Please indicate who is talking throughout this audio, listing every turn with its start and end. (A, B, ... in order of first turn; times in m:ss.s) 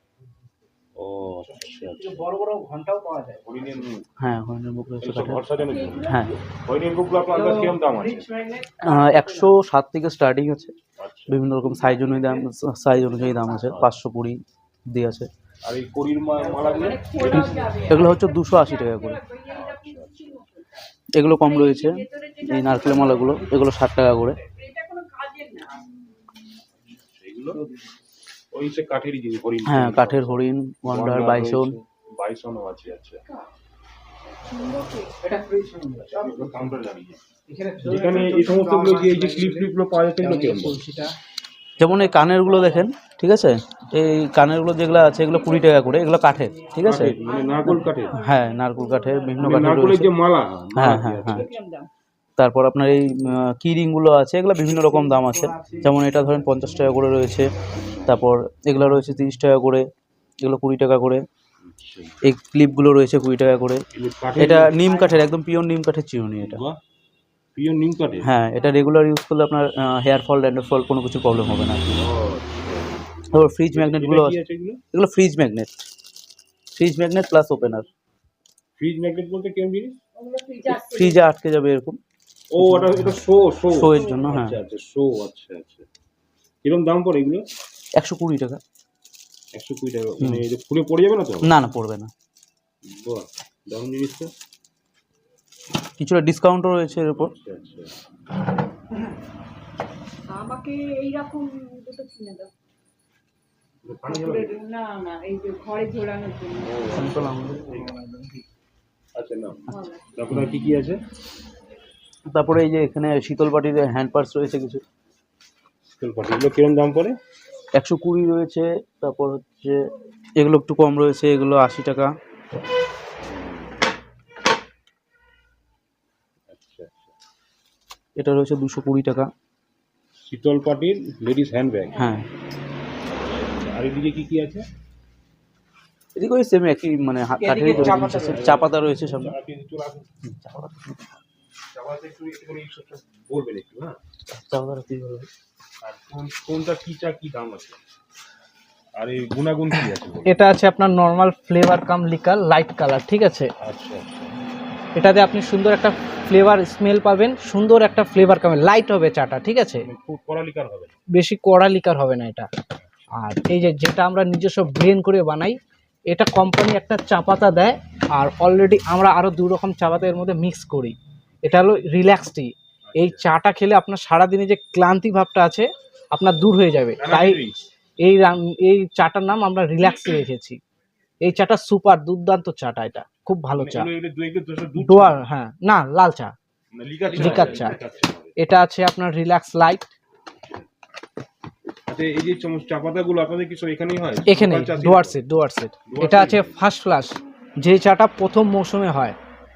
0:01.0-0:02.2 A
0:02.0-0:03.4 B
0:03.4-0:04.0 A
0:04.2-0:05.4 C
0:05.0-0:08.3 A
0:05.6-0:06.3 D
0:06.0-0:06.4 C
0:07.3-0:09.5 B
0:08.8-0:10.8 C
0:11.0-0:12.4 A
0:11.3-0:15.3 C
0:13.1-0:13.9 A
0:15.6-0:17.7 A
0:16.6-0:23.5 D
0:17.2-0:19.2 C
0:19.4-0:20.4 A
0:21.1-0:24.4 C
0:24.5-0:25.9 D
0:26.9-0:27.6 A
0:28.5-0:33.2 A
0:29.6-0:31.7 C
0:34.5-0:35.2 D
0:35.2-0:36.6 B
0:36.0-0:37.2 A
0:37.5-0:41.1 B
0:37.8-0:40.8 A
0:41.8-0:50.1 C
0:46.8-0:48.2 A
0:47.2-0:49.6 D
0:49.4-0:51.5 A
0:50.8-0:51.4 C
0:51.3-0:51.9 D
0:52.4-0:57.5 C
0:54.8-0:56.9 B
0:58.0-0:59.9 C
1:00.4-1:01.2 C
1:01.6-1:02.2 A
1:02.2-1:03.8 C
1:03.9-1:05.0 A
1:04.4-1:06.6 C
1:06.4-1:06.8 A
1:07.6-1:08.3 A
1:08.2-1:12.0 C
1:12.0-1:14.8 A
1:13.3-1:14.4 C
1:14.9-1:15.8 C
1:16.7-1:17.9 C
1:18.8-1:20.0 A
1:20.1-1:21.2 D
1:20.7-1:22.0 C
1:22.5-1:25.8 A
1:22.6-1:24.6 C
1:26.6-1:27.5 A
1:28.0-1:28.6 C
1:29.5-1:31.5 A
1:31.4-1:32.1 C
1:32.8-1:34.3 A
1:36.0-1:37.3 C
1:37.2-1:37.9 A
1:40.3-1:42.5 D
1:43.8-1:44.6 A
1:44.0-1:46.8 D
1:46.6-1:47.9 A
1:46.9-1:48.4 C
1:49.1-1:51.0 A
1:49.7-1:50.1 D
1:52.3-1:54.8 C
1:56.0-1:57.2 A
1:57.7-2:02.1 C
2:03.3-2:03.7 A
2:06.5-2:07.1 A
2:08.2-2:09.3 C
2:10.3-2:12.0 A
2:11.9-2:12.3 C
2:13.2-2:14.7 A
2:16.2-2:19.3 C
2:17.4-2:18.5 B
2:17.6-2:20.1 A
2:20.2-2:21.2 C
2:21.7-2:24.0 A
2:24.3-2:25.3 C
2:25.8-2:27.8 A
2:29.0-2:30.5 A
2:30.2-2:33.5 B
2:33.6-2:34.3 A
2:35.0-2:39.8 B
2:39.8-2:40.9 A
2:41.1-2:42.5 B
2:42.8-2:43.1 A
2:43.2-2:45.6 B
2:46.1-2:57.4 B
2:52.8-2:53.2 A
2:57.0-2:57.6 A
2:58.0-3:00.6 B
3:01.2-3:03.9 B
3:03.6-3:05.2 A
3:04.8-3:06.3 B
3:06.7-3:08.3 A
3:07.1-3:07.8 B
3:08.4-3:09.9 B
3:11.9-3:15.2 A
3:14.3-3:19.2 B
3:15.9-3:16.6 A